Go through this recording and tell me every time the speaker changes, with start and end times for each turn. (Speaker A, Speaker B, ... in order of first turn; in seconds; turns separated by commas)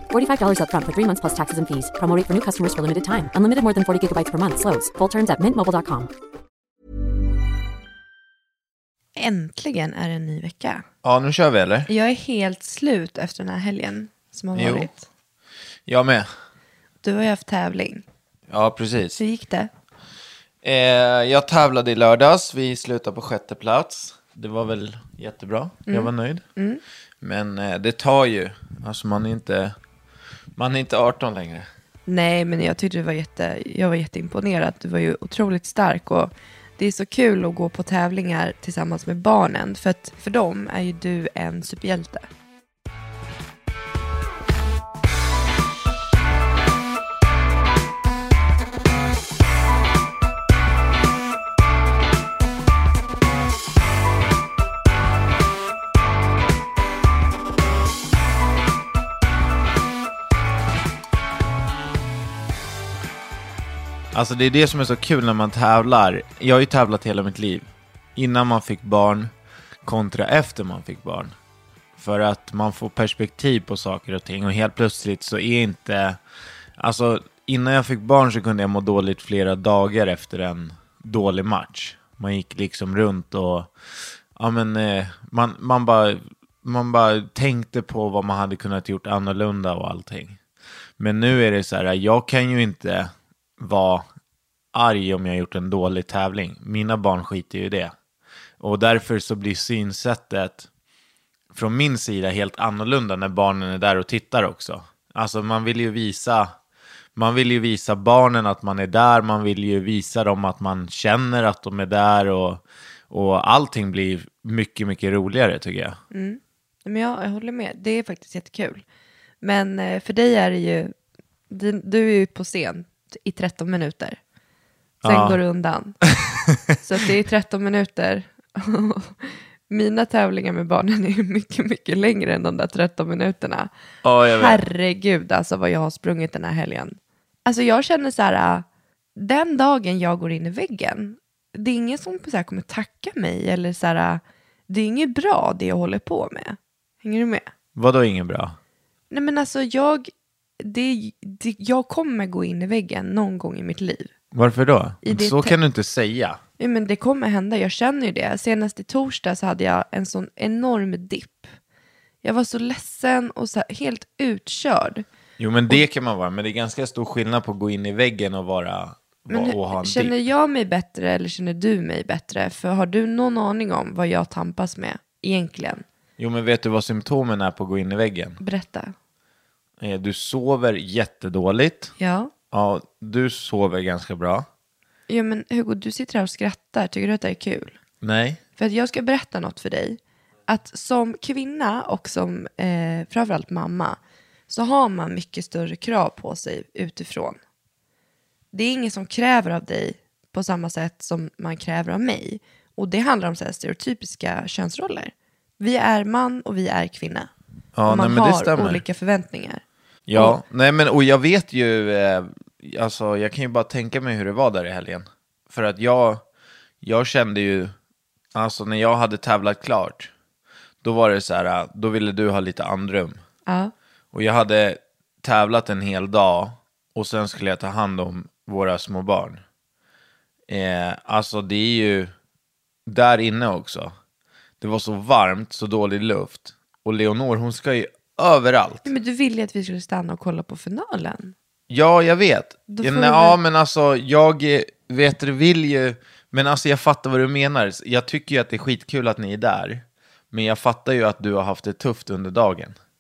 Speaker A: 0.1-6.1, Speaker B: 9.2-10.8, Speaker C: 11.0-11.9, Speaker B: 11.9-15.1, Speaker C: 14.6-14.9, Speaker C: 15.9-16.3, Speaker B: 17.0-18.1, Speaker C: 18.5-19.2, Speaker B: 19.2-19.7, Speaker C: 20.6-26.4, Speaker B: 25.9-26.8, Speaker C: 27.2-29.7, Speaker C: 30.6-31.7, Speaker B: 32.1-42.3, Speaker C: 64.1-69.3, Speaker C: 69.8-71.3, Speaker C: 72.0-76.2, Speaker C: 76.8-83.7, Speaker C: 84.4-90.4, Speaker C: 91.0-94.0, Speaker C: 94.7-97.9, Speaker C: 98.6-100.7, Speaker C: 101.5-106.5, Speaker C: 107.2-116.0, Speaker B: 116.1-118.8, Speaker B: 119.4-120.9, Speaker B: 121.5-124.2, Speaker C: 125.0-125.4, Speaker B: 125.0-126.0, Speaker C: 126.3-126.6, Speaker B: 126.8-133.7, Speaker C: 134.0-134.7, Speaker B: 134.2-138.7, Speaker B: 139.2-147.5, Speaker C: 147.8-148.6, Speaker B: 149.1-154.1, Speaker C: 154.3-156.4, Speaker B: 155.0-155.6, Speaker B: 156.6-161.5, Speaker B: 162.2-165.1, Speaker C: 165.4-170.2, Speaker B: 169.3-175.8, Speaker C: 176.2-178.4, Speaker B: 178.4-178.9, Speaker C: 179.8-181.9, Speaker B: 182.0-182.3, Speaker C: 182.5-184.5, Speaker B: 185.1-187.8, Speaker C: 188.0-188.4, Speaker B: 188.6-194.0, Speaker B: 194.5-197.4, Speaker B: 198.5-207.3, Speaker C: 207.8-208.8, Speaker B: 207.9-209.6, Speaker C: 210.1-216.2, Speaker C: 216.8-217.7, Speaker C: 218.3-220.1, Speaker C: 220.8-223.2, Speaker B: 223.5-223.7, Speaker C: 224.1-229.4, Speaker C: 230.5-232.1, Speaker C: 232.9-233.9, Speaker C: 234.6-238.9, Speaker B: 238.8-241.3, Speaker C: 241.7-252.8, Speaker B: 242.7-243.4